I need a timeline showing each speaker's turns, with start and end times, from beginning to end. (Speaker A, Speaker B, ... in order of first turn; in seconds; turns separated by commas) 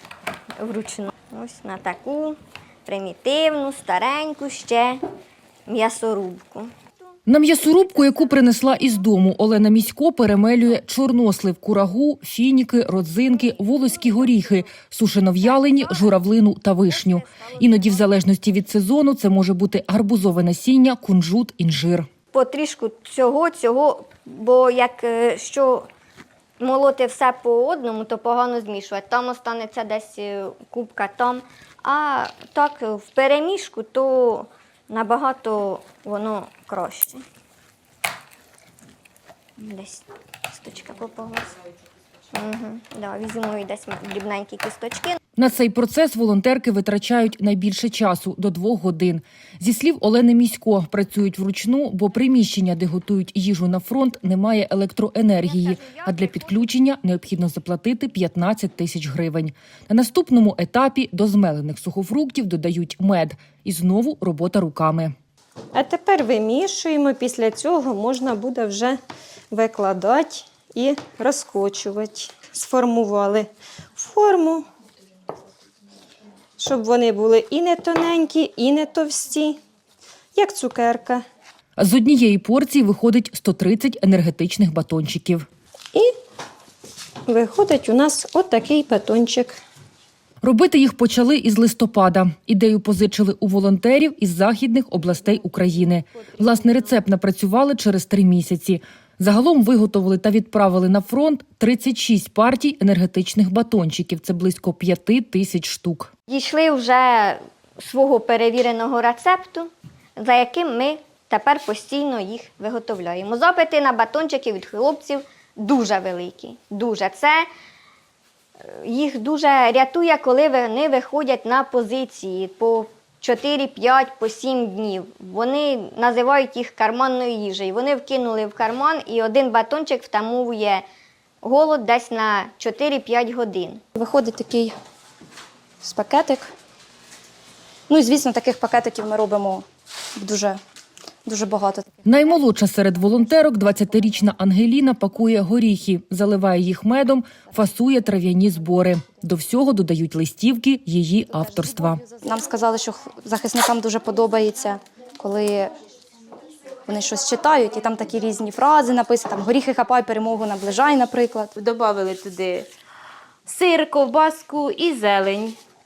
Speaker A: 0.6-5.0, Speaker A: 5.7-6.7, Speaker B: 7.3-22.1, Speaker A: 15.4-16.2, Speaker A: 16.9-18.1, Speaker A: 22.3-25.9, Speaker A: 26.6-37.2, Speaker A: 39.6-41.5, Speaker A: 42.3-45.2, Speaker B: 45.4-65.1, Speaker A: 55.4-56.7, Speaker C: 65.7-74.7, Speaker C: 76.6-79.6, Speaker C: 80.3-81.2, Speaker B: 81.8-85.5, Speaker C: 87.3-89.6, Speaker B: 90.4-106.1, Speaker A: 106.3-117.5, Speaker A: 118.6-130.8, Speaker A: 131.4-133.8, Speaker D: 133.9-134.7, Speaker D: 135.8-136.5, Speaker D: 137.9-139.6, Speaker D: 140.2-140.6, Speaker D: 141.2-142.0, Speaker B: 142.1-152.0, Speaker D: 151.3-155.7, Speaker D: 156.9-161.5, Speaker E: 161.6-162.7, Speaker E: 163.4-165.6